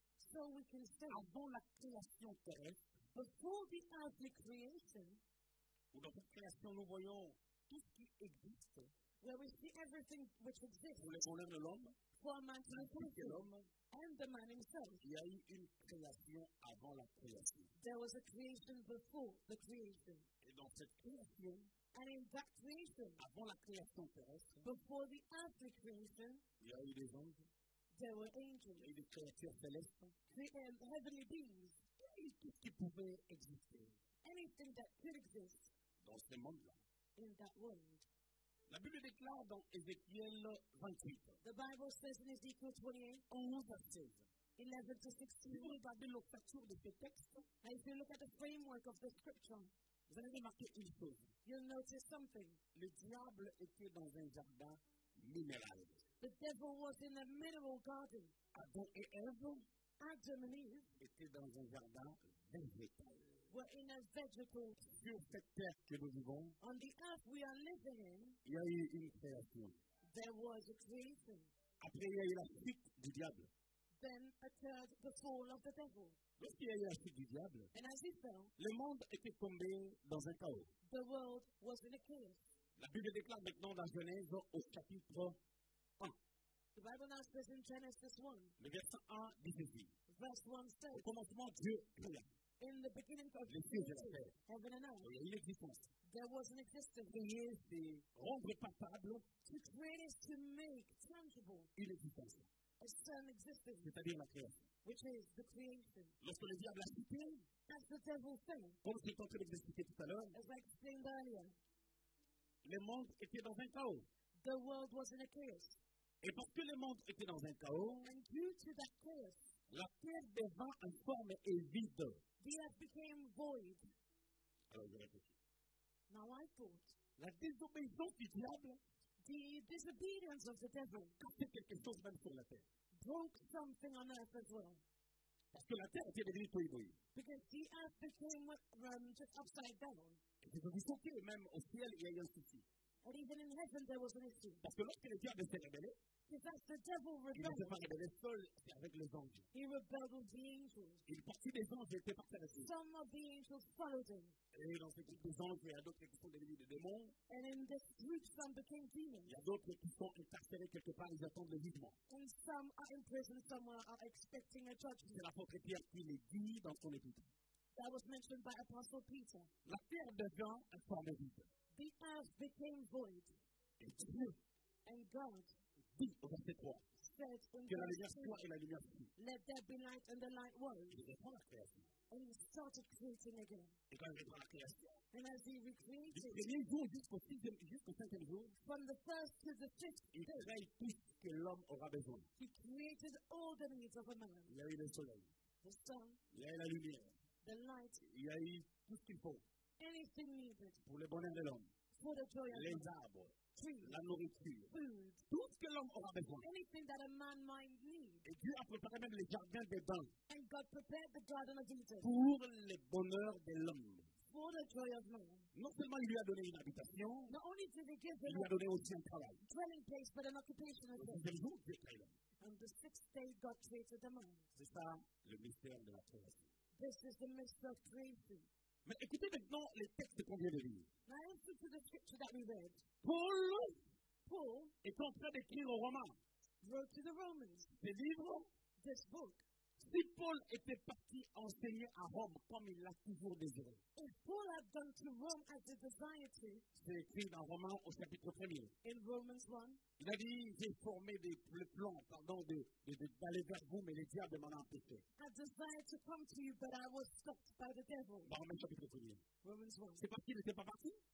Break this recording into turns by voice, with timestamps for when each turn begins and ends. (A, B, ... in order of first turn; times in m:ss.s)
0:00.2-0:01.3 A
0:01.1-0:02.8 B
0:03.1-0:05.2 A
0:05.9-0:08.9 B
0:09.2-0:11.2 A
0:11.0-0:12.0 B
0:12.2-0:15.0 A
0:12.7-0:13.7 B
0:15.0-0:17.7 B
0:17.8-0:20.3 A
0:20.4-0:21.7 B
0:21.9-0:23.2 A
0:23.2-0:24.6 B
0:24.6-0:26.4 A
0:26.6-0:27.5 B
0:27.9-0:28.9 A
0:28.8-0:30.1 B
0:30.3-0:31.8 A
0:32.0-0:34.0 B
0:34.2-0:35.7 A
0:36.0-0:36.8 B
0:37.2-0:38.0 A
0:38.7-0:41.4 B
0:41.4-0:43.2 A
0:43.3-0:44.3 B
0:44.6-0:45.8 A
0:45.5-0:47.5 B
0:47.6-0:49.7 A
0:50.1-0:51.3 B
0:51.4-0:52.6 A
0:52.7-0:56.1 B
0:56.2-0:58.3 A
0:58.5-0:59.6 B
1:00.0-1:01.0 A
1:01.0-1:03.5 B
1:03.5-1:04.8 A
1:04.8-1:06.6 B
1:06.6-1:08.4 A
1:08.4-1:09.8 B
1:10.1-1:11.5 A
1:11.8-1:13.5 B
1:14.0-1:16.2 A
1:16.4-1:17.7 B
1:17.7-1:18.5 A
1:18.6-1:20.7 B
1:20.8-1:22.4 A
1:22.8-1:25.4 B
1:26.7-1:28.6 A
1:28.6-1:29.9 B
1:30.1-1:31.0 A
1:30.9-1:32.3 B
1:32.6-1:35.1 A
1:33.5-1:34.3 B
1:35.0-1:35.9 B
1:36.0-1:37.3 A
1:37.1-1:39.3 B
1:39.4-1:41.7 A
1:41.8-1:42.5 B
1:42.8-1:43.9 A
1:43.8-1:44.6 B
1:44.8-1:46.2 A
1:46.2-1:47.5 B
1:47.7-1:48.8 A
1:48.8-1:50.4 B
1:50.3-1:51.6 A
1:52.6-1:54.1 B
1:54.4-1:55.8 A
1:56.2-1:58.1 B
1:58.0-1:59.5 A
1:59.7-2:02.2 B
2:02.4-2:03.9 A
2:04.7-2:05.3 B
2:06.1-2:06.9 A
2:07.2-2:08.8 B
2:09.2-2:11.2 A
2:11.2-2:12.6 B
2:13.0-2:14.8 A
2:15.5-2:17.0 B
2:17.1-2:20.2 A
2:20.4-2:22.6 B
2:23.0-2:24.6 A
2:24.6-2:26.0 B
2:26.3-2:27.8 A
2:27.3-2:29.5 B
2:29.5-2:31.0 A
2:31.0-2:32.7 B
2:32.6-2:34.4 A
2:34.5-2:37.2 B
2:37.3-2:39.3 A
2:39.2-2:42.0 B
2:42.1-2:45.2 A
2:45.1-2:47.3 B
2:47.7-2:49.5 A
2:49.6-2:51.5 B
2:51.7-2:53.3 A
2:53.8-2:54.4 B
2:54.8-2:55.5 A
2:55.9-2:56.9 B
2:57.0-2:58.4 A
2:57.6-2:59.1 B
2:59.2-3:01.0 A
3:00.9-3:01.9 B
3:02.1-3:03.8 A
3:03.9-3:05.0 B
3:05.1-3:06.4 A
3:06.1-3:08.6 B
3:08.6-3:10.5 A
3:10.1-3:12.3 B
3:12.4-3:14.5 A
3:14.5-3:15.3 B
3:15.6-3:16.2 A
3:16.3-3:17.2 B
3:17.4-3:18.0 A
3:18.0-3:19.4 B
3:19.8-3:20.8 A
3:20.8-3:21.7 B
3:21.9-3:22.9 A
3:22.5-3:24.7 B
3:23.5-3:24.0 A
3:24.7-3:25.2 A
3:25.3-3:26.5 B
3:26.4-3:28.2 A
3:28.2-3:30.1 B
3:30.3-3:32.1 A
3:32.0-3:34.1 B
3:34.2-3:35.5 A
3:35.5-3:37.3 B
3:37.3-3:38.5 A
3:38.2-3:39.4 B
3:39.4-3:41.2 A
3:41.0-3:42.2 B
3:42.4-3:44.5 A
3:44.5-3:46.5 B
3:46.8-3:48.5 A
3:48.8-3:50.9 B
3:51.1-3:53.0 A
3:53.0-3:53.8 B
3:54.2-3:54.7 A
3:54.8-3:56.2 B
3:56.6-3:57.7 A
3:57.8-3:58.5 B
3:58.8-3:59.4 A
3:59.8-4:03.8 B
4:03.9-4:06.6 A
4:06.7-4:08.7 B
4:08.8-4:09.8 A
4:10.0-4:15.0 B
4:15.2-4:18.3 A
4:18.2-4:19.2 B
4:19.4-4:20.0 A
4:20.0-4:21.0 B